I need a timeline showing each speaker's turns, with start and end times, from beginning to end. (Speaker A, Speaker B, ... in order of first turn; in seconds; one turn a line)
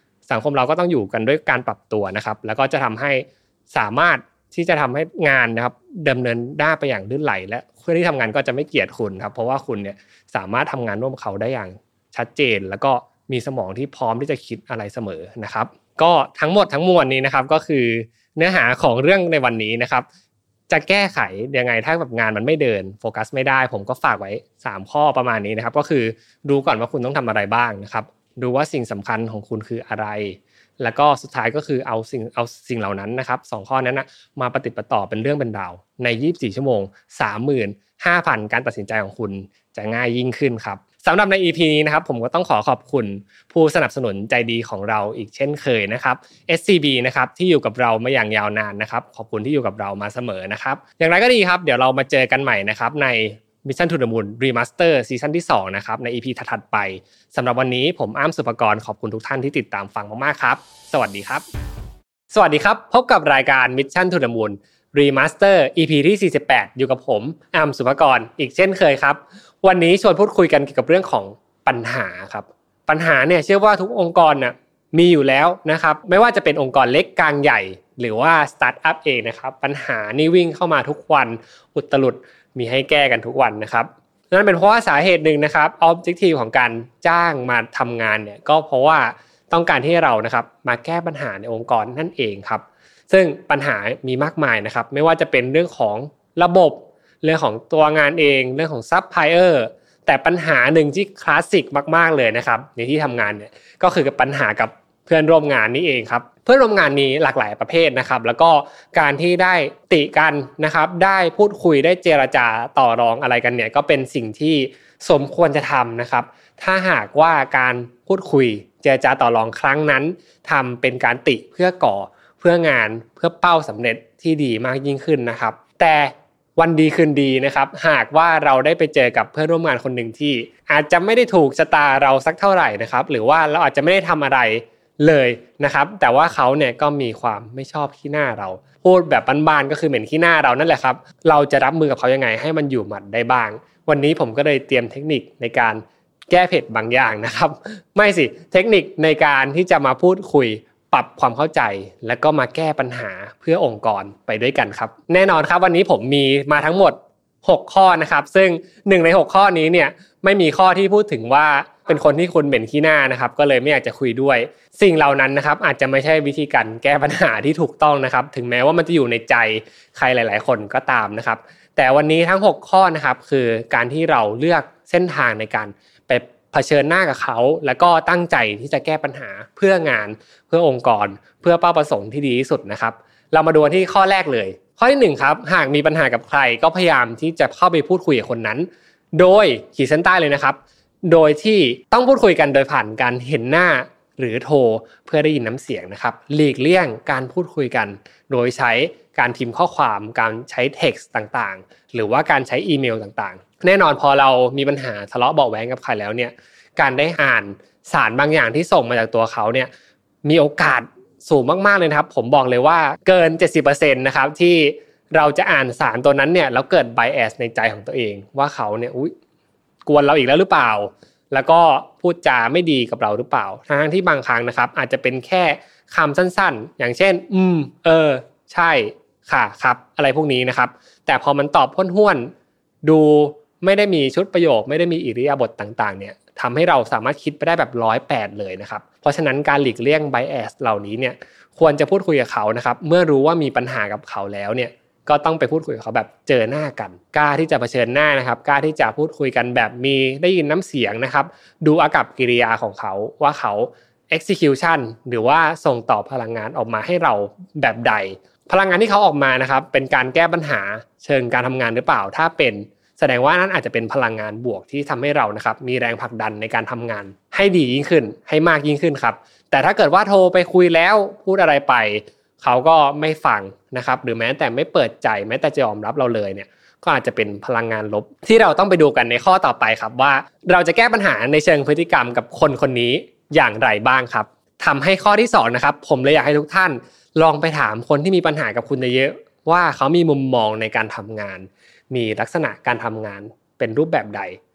Speaker A: 0.3-20.1
Speaker A: 20.7-61.4
Speaker A: 62.3-209.7
Speaker A: 210.2-219.1
Speaker A: 219.8-232.3
Speaker A: 232.8-294.4